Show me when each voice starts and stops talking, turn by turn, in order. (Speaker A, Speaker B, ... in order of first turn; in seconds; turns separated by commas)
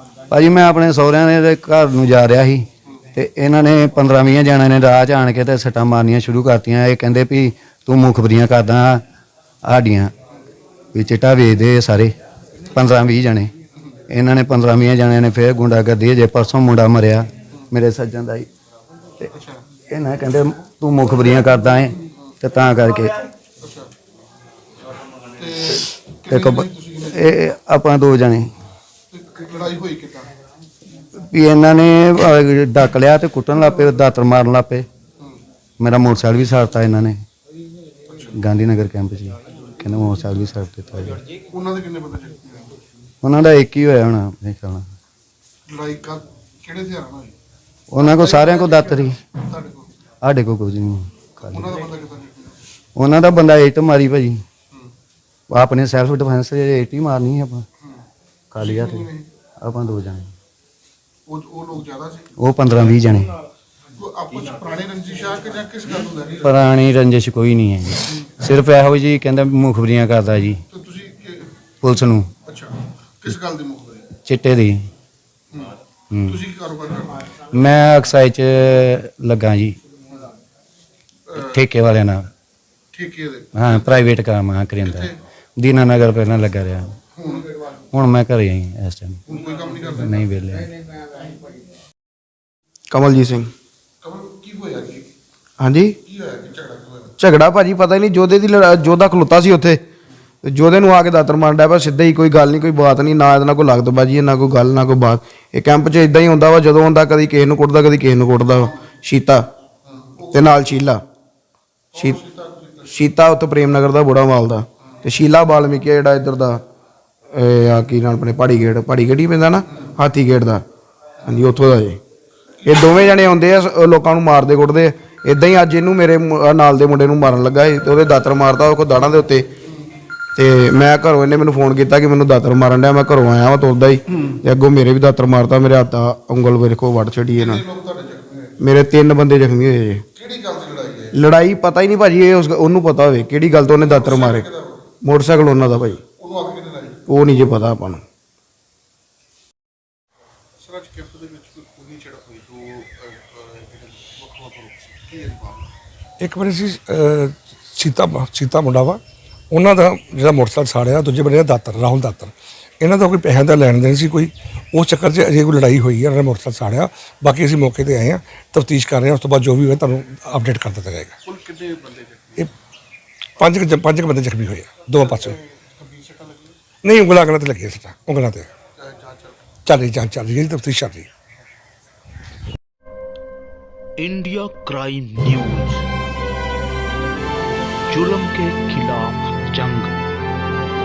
Speaker A: 0.3-9.0, Speaker A: 9.7-10.1, Speaker A: 10.9-12.1, Speaker A: 12.7-13.5, Speaker A: 14.1-18.5, Speaker B: 19.3-19.6, Speaker A: 19.9-23.2, Speaker B: 22.0-22.4, Speaker B: 23.6-23.9, Speaker B: 25.3-27.3, Speaker A: 26.3-28.5, Speaker B: 29.1-30.3, Speaker A: 31.2-34.9, Speaker A: 35.8-37.2, Speaker B: 38.1-38.4, Speaker A: 38.4-41.2, Speaker B: 41.5-42.7, Speaker A: 43.2-44.9, Speaker B: 45.7-47.3, Speaker A: 47.9-49.2, Speaker B: 48.0-49.9, Speaker A: 50.2-51.8, Speaker B: 51.4-52.6, Speaker A: 53.0-54.4, Speaker A: 55.5-57.6, Speaker A: 58.5-59.1, Speaker B: 58.6-59.3, Speaker A: 59.6-60.3, Speaker B: 61.3-62.3, Speaker A: 62.4-63.3, Speaker B: 64.0-66.6, Speaker A: 66.4-70.6, Speaker B: 70.7-71.6, Speaker A: 71.8-72.3, Speaker B: 72.4-74.2, Speaker A: 74.3-74.9, Speaker A: 76.1-76.4, Speaker B: 76.3-77.3, Speaker A: 77.5-79.8, Speaker B: 81.3-81.5, Speaker A: 81.4-82.3, Speaker B: 82.9-84.0, Speaker A: 83.5-87.0, Speaker B: 84.8-85.2, Speaker B: 87.2-87.5, Speaker A: 87.9-89.2, Speaker B: 89.3-90.2, Speaker A: 90.0-90.8, Speaker C: 92.9-93.5, Speaker B: 94.0-95.1, Speaker C: 95.6-96.0, Speaker B: 96.0-97.2, Speaker C: 97.2-99.8, Speaker C: 100.4-109.5, Speaker B: 109.8-110.5, Speaker C: 110.3-111.0, Speaker B: 111.9-113.0, Speaker C: 112.9-116.6, Speaker C: 117.3-120.6, Speaker C: 121.2-122.0, Speaker B: 122.6-123.0, Speaker C: 122.7-129.5, Speaker C: 130.4-137.6, Speaker B: 137.4-138.6, Speaker C: 138.6-140.0, Speaker B: 140.2-141.2, Speaker C: 141.1-144.5, Speaker B: 143.8-144.9, Speaker C: 145.0-146.0, Speaker B: 146.2-147.1, Speaker C: 147.1-148.0, Speaker B: 150.6-155.7, Speaker D: 156.2-171.2, Speaker B: 171.2-172.5, Speaker D: 173.4-175.4, Speaker B: 175.0-176.6, Speaker D: 176.8-178.5, Speaker B: 178.8-179.5, Speaker D: 179.7-181.1, Speaker E: 184.0-185.9, Speaker E: 187.9-190.0